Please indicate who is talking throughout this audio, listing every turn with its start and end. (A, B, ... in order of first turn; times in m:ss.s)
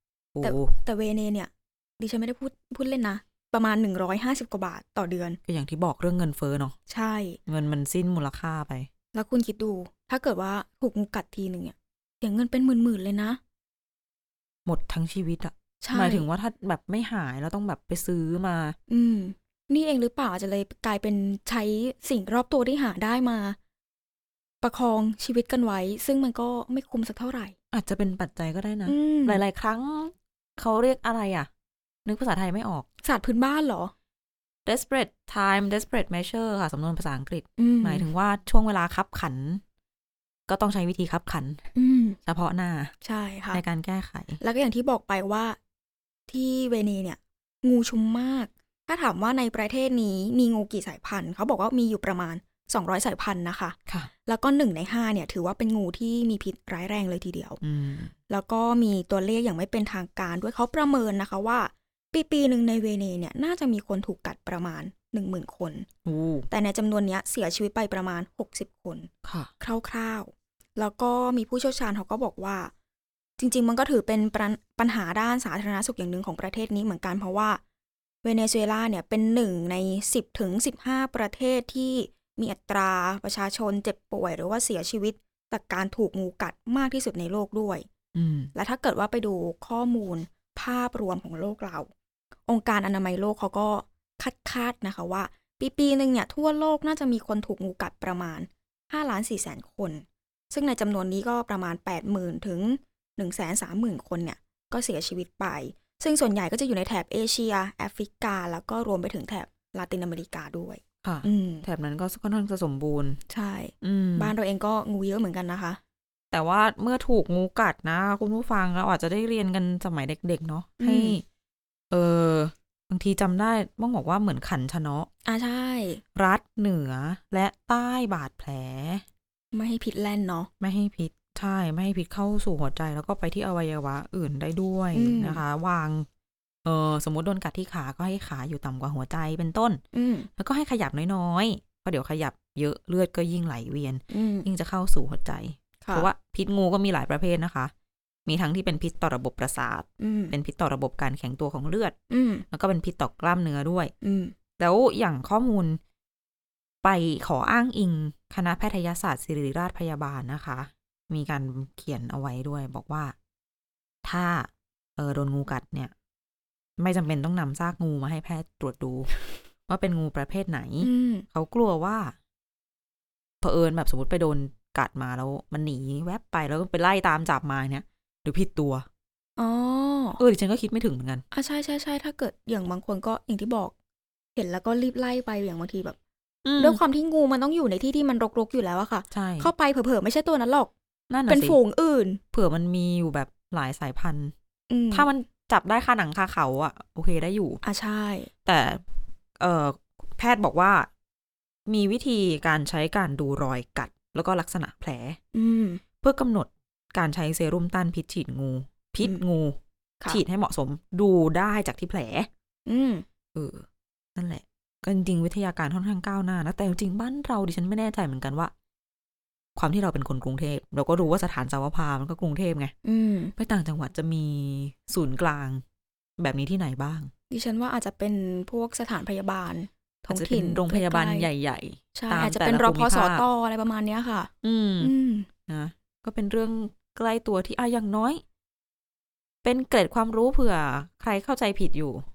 0:00.4-0:00.8 A
0:00.4-0:05.4 B
0:05.5-0:06.8 A
0:06.9-0:07.4 B
0:07.5-0:08.9 A
0:09.1-0:13.4 B
0:14.7-0:18.8 A
0:15.8-0:16.2 B
0:18.9-0:23.6 B
0:24.6-0:27.6 B
0:27.7-0:31.5 A
0:28.9-0:29.4 B
0:32.0-0:32.9 A
0:33.0-0:33.9 B
0:34.7-0:39.6 A
0:37.6-0:38.1 B
0:40.5-0:41.6 A
0:41.8-0:42.2 B
0:42.2-0:42.9 A
0:43.0-0:43.6 B
0:43.5-0:44.4 A
0:44.4-0:45.6 B
0:46.3-0:57.6 B
0:57.6-0:58.1 A
0:58.3-1:05.9 B
1:06.0-1:06.5 A
1:06.5-1:09.1 B
1:09.2-1:09.5 A
1:09.6-1:12.7 B
1:13.4-1:17.6 B
1:18.2-1:27.9 B
1:28.1-1:28.5 A
1:28.6-1:31.9 B
1:32.5-1:51.6 B
1:51.0-1:53.2 A
1:53.3-1:55.8 B
1:53.8-1:54.3 A
1:56.3-2:01.2 A
2:00.8-2:01.2 B
2:01.9-2:05.1 A
2:05.2-2:06.0 B
2:06.2-2:09.0 A
2:09.5-2:10.5 B
2:10.6-2:16.1 A
2:14.9-2:15.4 B
2:16.6-2:19.8 A
2:19.9-2:20.3 B
2:20.4-2:27.7 A
2:24.1-2:24.5 B
2:25.8-2:26.1 B
2:28.3-2:32.0 A
2:30.0-2:30.3 B
2:32.1-2:32.4 B
2:32.5-2:33.9 A
2:34.0-2:34.4 B
2:34.6-2:35.8 A
2:36.8-2:43.2 A
2:44.0-2:45.9 A
2:46.8-2:49.1 A
2:49.7-2:52.2 A
2:50.8-2:51.3 B
2:53.4-2:58.9 A
2:59.4-3:00.2 B
3:00.2-3:01.2 A
3:01.3-3:03.7 B
3:04.4-3:06.0 B
3:06.4-3:06.8 A
3:06.6-3:10.7 B
3:09.1-3:09.5 A
3:11.1-3:11.6 A
3:11.3-3:12.2 B
3:12.3-3:14.3 A
3:14.7-3:15.1 B
3:14.9-3:17.6 A
3:17.6-3:18.3 B
3:18.4-3:18.8 A
3:19.4-3:20.9 A
3:21.7-3:25.2 A
3:25.3-3:25.8 B
3:26.0-3:32.3 A
3:32.7-3:33.1 B
3:33.4-3:38.5 A
3:39.6-3:42.7 A
3:42.8-3:43.3 B
3:43.4-3:45.6 A
3:46.2-3:47.1 A
3:47.3-3:51.3 B
3:50.1-3:53.2 A
3:52.0-3:55.3 B
3:54.4-3:54.9 A
3:55.5-3:58.2 A
3:59.4-4:02.0 A